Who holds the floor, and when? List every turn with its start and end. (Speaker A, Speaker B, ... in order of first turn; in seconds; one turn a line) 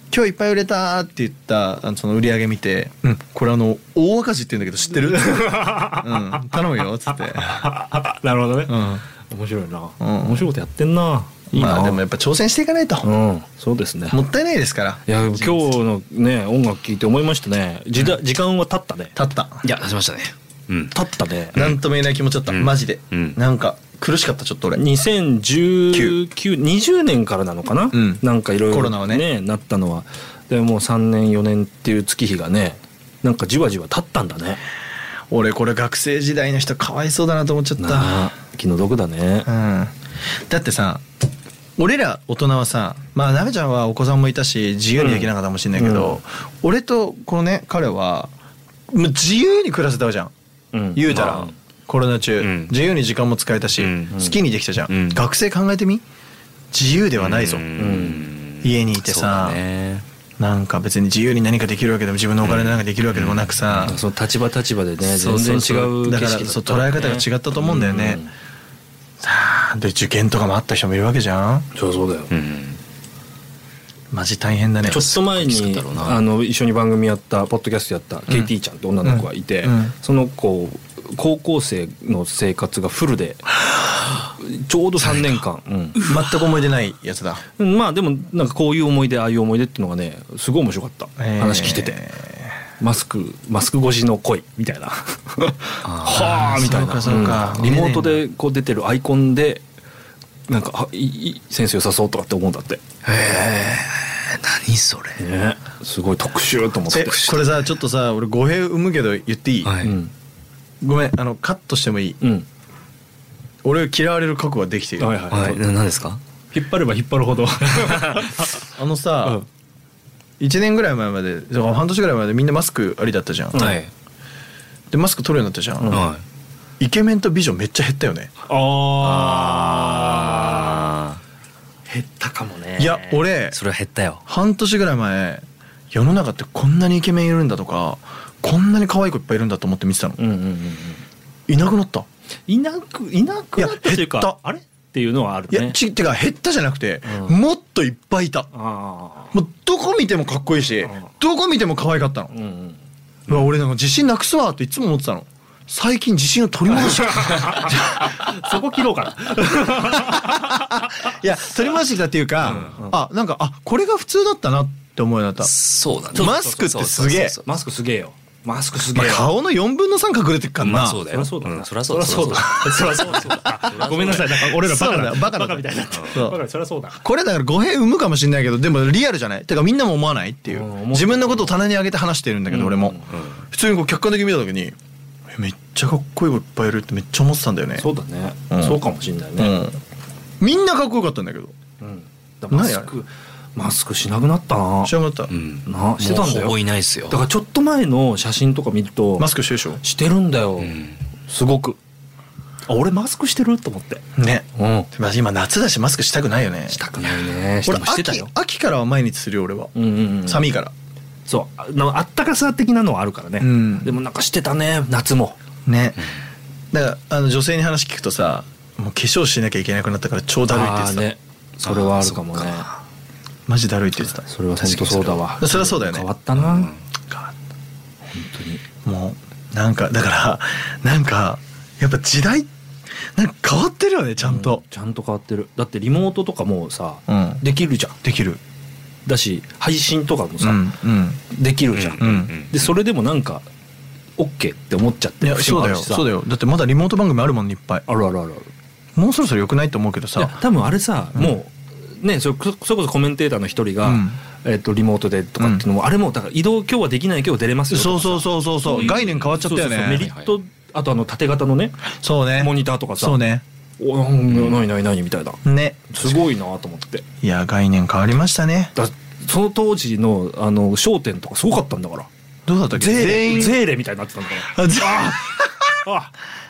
Speaker A: 0.1-7.7
Speaker B: 5.1-12.0
Speaker A: 8.7-9.0
Speaker A: 10.0-10.5
Speaker A: 11.5-13.1
Speaker B: 13.0-14.2
Speaker A: 14.1-15.7
Speaker B: 15.0-19.1
Speaker A: 19.1-19.7
Speaker C: 19.6-20.9
Speaker B: 20.9-21.6
Speaker A: 21.5-24.8
Speaker C: 22.5-23.4
Speaker B: 24.7-34.6
Speaker A: 25.9-26.2
Speaker A: 27.9-29.3
Speaker A: 35.3-38.3
Speaker B: 37.8-39.5
Speaker A: 39.5-39.9
Speaker A: 40.5-41.0
Speaker A: 41.8-48.3
Speaker B: 45.0-46.2
Speaker A: 48.9-50.3
Speaker B: 50.7-51.5
Speaker A: 50.9-56.0
Speaker C: 51.1-51.5
Speaker C: 52.4-52.7
Speaker C: 53.8-54.1
Speaker B: 54.1-54.4
Speaker C: 54.9-55.2
Speaker A: 56.7-57.6
Speaker C: 57.2-60.0
Speaker B: 57.8-58.2
Speaker A: 58.6-59.6
Speaker A: 60.4-64.0
Speaker C: 62.4-63.9
Speaker B: 63.8-68.3
Speaker A: 65.0-68.2
Speaker A: 69.2-71.7
Speaker B: 71.7-72.3
Speaker C: 72.3-72.8
Speaker A: 74.1-75.0
Speaker C: 74.8-76.2
Speaker B: 74.8-86.0
Speaker A: 79.0-79.9
Speaker A: 86.0-87.4
Speaker B: 87.6-92.0
Speaker A: 91.2-92.4
Speaker B: 92.8-99.6
Speaker C: 95.8-96.5
Speaker A: 96.3-98.2
Speaker C: 97.1-97.4
Speaker B: 100.5-102.8
Speaker C: 103.0-105.2
Speaker B: 105.2-107.2
Speaker A: 106.9-109.7
Speaker C: 109.6-109.9
Speaker B: 109.8-110.1
Speaker A: 110.8-112.2
Speaker A: 113.6-115.2
Speaker B: 115.0-115.6
Speaker C: 115.3-116.2
Speaker B: 116.5-118.6
Speaker A: 118.6-119.4
Speaker A: 120.4-123.7
Speaker B: 123.5-123.8
Speaker C: 123.5-123.9
Speaker A: 124.9-126.0
Speaker B: 125.8-126.1
Speaker C: 125.9-126.2
Speaker A: 126.8-128.3
Speaker B: 128.5-130.9
Speaker C: 129.0-131.2
Speaker B: 131.9-133.2
Speaker A: 132.8-133.6
Speaker C: 133.5-134.2
Speaker A: 134.2-140.2
Speaker B: 140.2-141.0
Speaker A: 141.5-142.1
Speaker B: 142.5-145.8
Speaker A: 143.6-144.3
Speaker A: 145.5-148.5
Speaker B: 147.1-147.4
Speaker B: 148.5-149.4
Speaker A: 149.3-152.3
Speaker B: 152.3-152.8
Speaker A: 153.3-158.5
Speaker B: 156.9-161.0
Speaker A: 159.4-165.5
Speaker B: 162.4-163.0
Speaker C: 165.4-167.4
Speaker A: 166.1-167.4
Speaker B: 166.1-169.3
Speaker A: 168.9-171.0
Speaker C: 170.6-174.5
Speaker B: 171.1-177.0
Speaker A: 174.4-176.4
Speaker A: 177.0-184.8
Speaker B: 180.5-181.6
Speaker B: 182.5-183.1
Speaker A: 185.3-187.8
Speaker B: 187.8-189.6
Speaker A: 188.5-188.8
Speaker A: 189.4-189.8
Speaker A: 190.4-191.5
Speaker B: 191.8-194.9
Speaker A: 192.5-192.9
Speaker A: 194.8-195.3
Speaker C: 195.3-197.2
Speaker B: 195.6-201.8
Speaker A: 199.2-199.8
Speaker C: 200.6-200.9
Speaker B: 202.7-204.0
Speaker A: 204.2-206.8
Speaker B: 204.6-204.9
Speaker B: 206.7-208.3
Speaker A: 207.6-210.7
Speaker B: 209.7-210.5
Speaker B: 211.2-215.4
Speaker A: 213.4-213.9
Speaker A: 215.7-216.1
Speaker A: 216.7-221.1
Speaker B: 220.5-222.7
Speaker C: 221.6-222.7
Speaker A: 223.5-224.2
Speaker B: 224.2-226.7
Speaker C: 224.6-225.2
Speaker A: 225.4-226.1
Speaker C: 226.4-226.8
Speaker B: 228.1-228.6
Speaker A: 228.8-232.5
Speaker A: 233.1-234.6
Speaker B: 234.2-238.0
Speaker A: 237.1-237.4
Speaker A: 238.0-238.4
Speaker B: 239.0-240.7
Speaker A: 240.4-241.2
Speaker B: 241.3-243.4
Speaker C: 241.7-242.6
Speaker A: 242.0-242.3
Speaker B: 244.2-246.1
Speaker A: 245.2-247.8
Speaker B: 247.9-248.5
Speaker A: 248.9-250.4
Speaker B: 250.2-263.2
Speaker A: 253.8-254.2
Speaker A: 255.4-255.6
Speaker A: 257.7-260.1
Speaker C: 258.9-260.3
Speaker A: 261.9-263.4
Speaker B: 263.8-267.0
Speaker A: 265.4-266.1
Speaker A: 267.2-268.7
Speaker B: 268.7-272.1
Speaker A: 272.4-273.6
Speaker B: 272.7-276.1
Speaker A: 274.4-275.6